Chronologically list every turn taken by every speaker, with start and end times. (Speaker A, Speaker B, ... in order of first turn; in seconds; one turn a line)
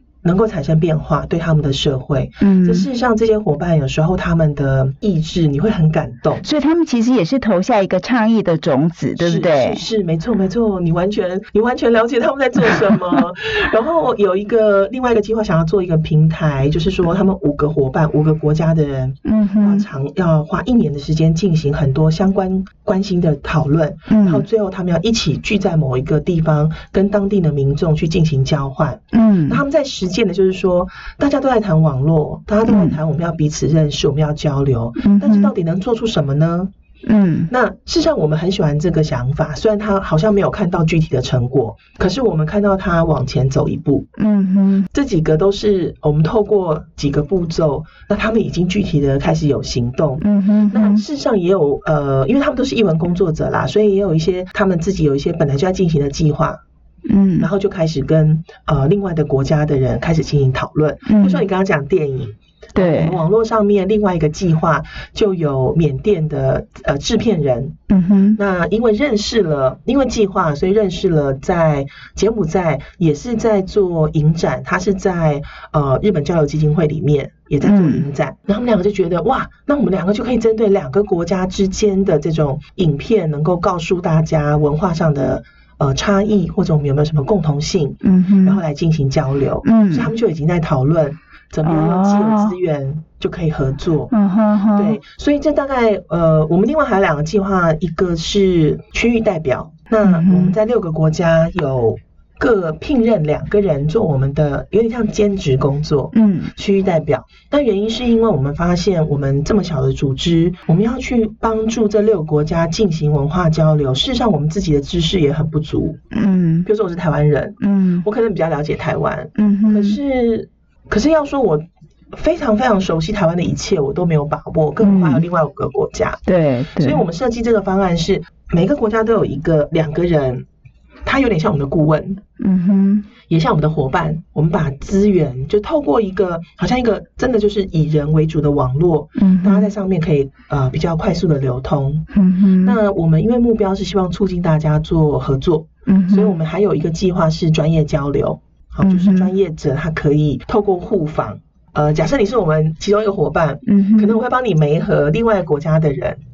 Speaker A: 0.2-6.5
Speaker B: 2.4-2.9
Speaker B: 6.4-9.8
Speaker A: 9.2-36.7
Speaker B: 19.2-19.9
Speaker B: 24.1-24.4
Speaker B: 29.1-29.6
Speaker B: 32.7-33.0
Speaker B: 35.0-35.5
Speaker B: 37.1-37.5
Speaker A: 37.5-44.1
Speaker B: 44.2-44.9
Speaker A: 44.9-56.6
Speaker B: 50.2-51.0
Speaker B: 57.1-57.5
Speaker A: 57.4-67.8
Speaker B: 61.1-61.4
Speaker B: 62.8-63.2
Speaker B: 67.9-68.4
Speaker A: 68.4-94.1
Speaker B: 77.6-78.0
Speaker B: 88.0-88.6
Speaker B: 89.6-90.1
Speaker B: 91.6-92.5
Speaker B: 94.1-95.0
Speaker A: 94.7-116.0
Speaker B: 100.0-100.6
Speaker B: 106.1-106.5
Speaker B: 116.1-116.7
Speaker A: 116.7-126.2
Speaker B: 117.6-118.1
Speaker B: 119.4-120.0
Speaker B: 124.8-125.2
Speaker B: 126.3-127.0
Speaker A: 126.8-130.5
Speaker A: 131.1-132.2
Speaker B: 132.4-133.1
Speaker A: 133.3-142.1
Speaker B: 139.2-139.7
Speaker B: 142.1-142.8
Speaker A: 142.6-156.2
Speaker B: 145.9-146.3
Speaker B: 148.8-149.3
Speaker B: 153.7-154.2